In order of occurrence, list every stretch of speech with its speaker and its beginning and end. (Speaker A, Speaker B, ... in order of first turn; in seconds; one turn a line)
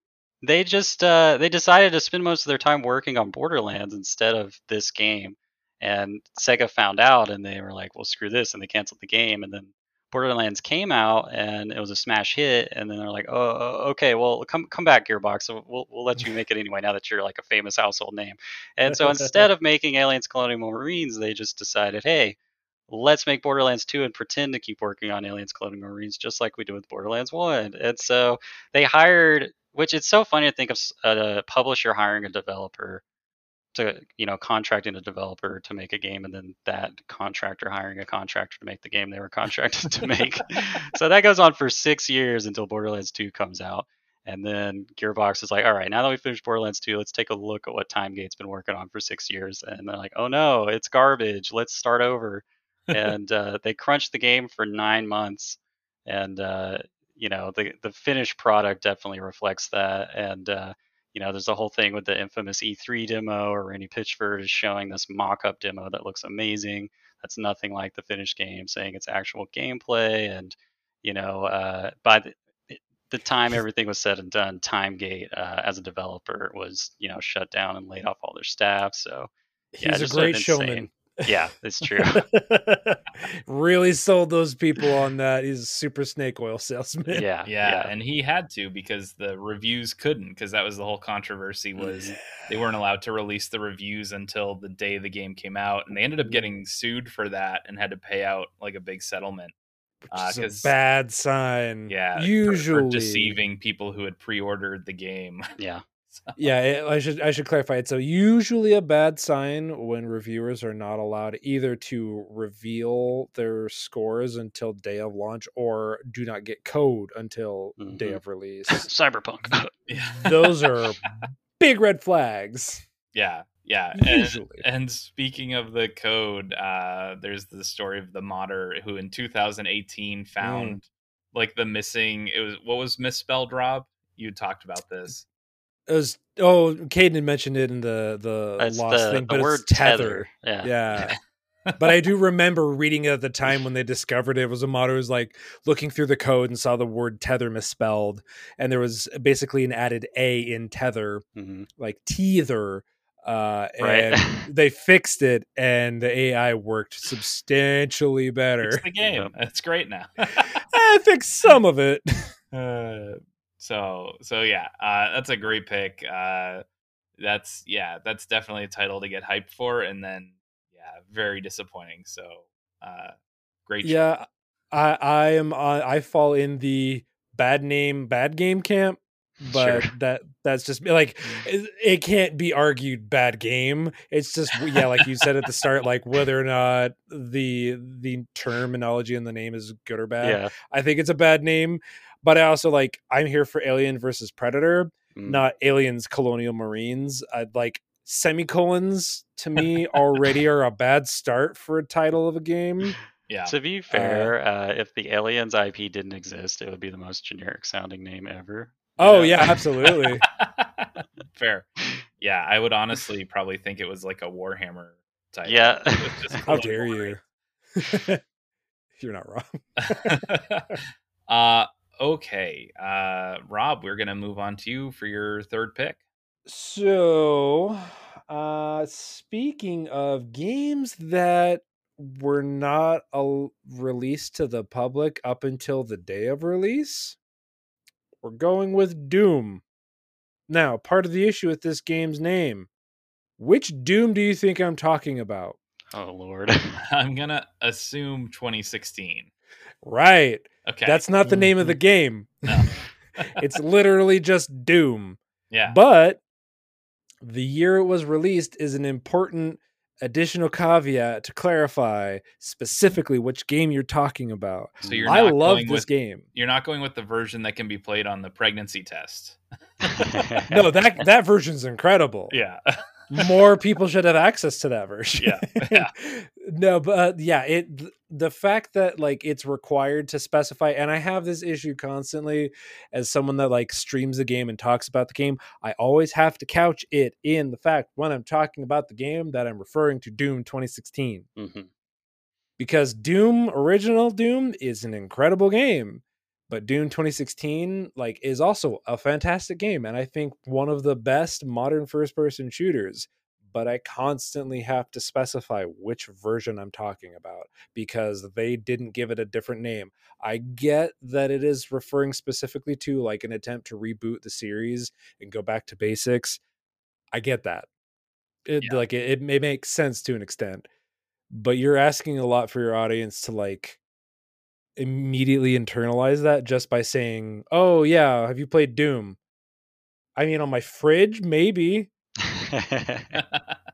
Speaker A: 0.4-22.4
Speaker A: 22.9-33.0
Speaker A: 33.7-79.3
Speaker B: 79.7-81.3
Speaker A: 79.8-82.3
Speaker B: 81.8-87.2
Speaker A: 87.1-87.9
Speaker C: 87.5-99.5
Speaker A: 91.8-92.2
Speaker B: 100.0-103.4
Speaker C: 100.1-100.7
Speaker C: 101.9-105.5
Speaker A: 105.6-105.8
Speaker C: 106.1-106.4
Speaker B: 106.4-118.9
Speaker A: 117.8-119.7
Speaker B: 119.5-122.8
Speaker C: 119.9-120.4
Speaker C: 123.1-135.2
Speaker B: 124.0-124.6
Speaker B: 130.4-130.8
Speaker B: 135.9-141.1
Speaker A: 138.6-140.7
Speaker C: 140.9-141.8
Speaker B: 141.8-151.2
Speaker A: 151.3-151.7
Speaker B: 151.8-158.8
Speaker A: 153.8-154.4
Speaker C: 158.6-160.6
Speaker A: 159.0-159.3
Speaker B: 160.5-162.3
Speaker C: 162.5-166.6
Speaker C: 167.2-173.1
Speaker C: 173.7-174.0
Speaker B: 173.8-202.9
Speaker A: 179.4-179.9
Speaker A: 190.2-190.5
Speaker A: 195.2-195.4
Speaker C: 203.3-203.5
Speaker A: 203.4-209.5
Speaker B: 203.9-204.3
Speaker B: 209.0-210.2
Speaker C: 209.8-217.2
Speaker A: 215.4-216.5
Speaker B: 216.4-217.2
Speaker B: 217.8-218.2
Speaker B: 219.0-220.8
Speaker C: 219.8-226.0
Speaker B: 226.4-237.2
Speaker B: 238.2-239.6
Speaker B: 240.5-242.7
Speaker B: 243.4-245.6
Speaker A: 245.9-246.8
Speaker C: 246.8-249.3
Speaker B: 249.8-252.6
Speaker C: 250.7-251.1
Speaker A: 251.2-251.7
Speaker C: 252.5-253.4
Speaker B: 253.2-256.2
Speaker C: 255.5-255.8
Speaker B: 257.2-266.2
Speaker A: 264.8-265.2
Speaker C: 264.8-270.3
Speaker A: 270.0-270.5
Speaker B: 270.5-272.3
Speaker C: 272.3-273.2
Speaker B: 273.1-291.2
Speaker C: 275.2-275.9
Speaker A: 291.4-291.7
Speaker B: 292.6-316.4
Speaker B: 317.1-317.7
Speaker B: 318.4-320.7
Speaker B: 321.3-323.8
Speaker B: 324.8-329.2
Speaker B: 330.1-331.9
Speaker A: 332.3-333.2
Speaker C: 333.1-333.6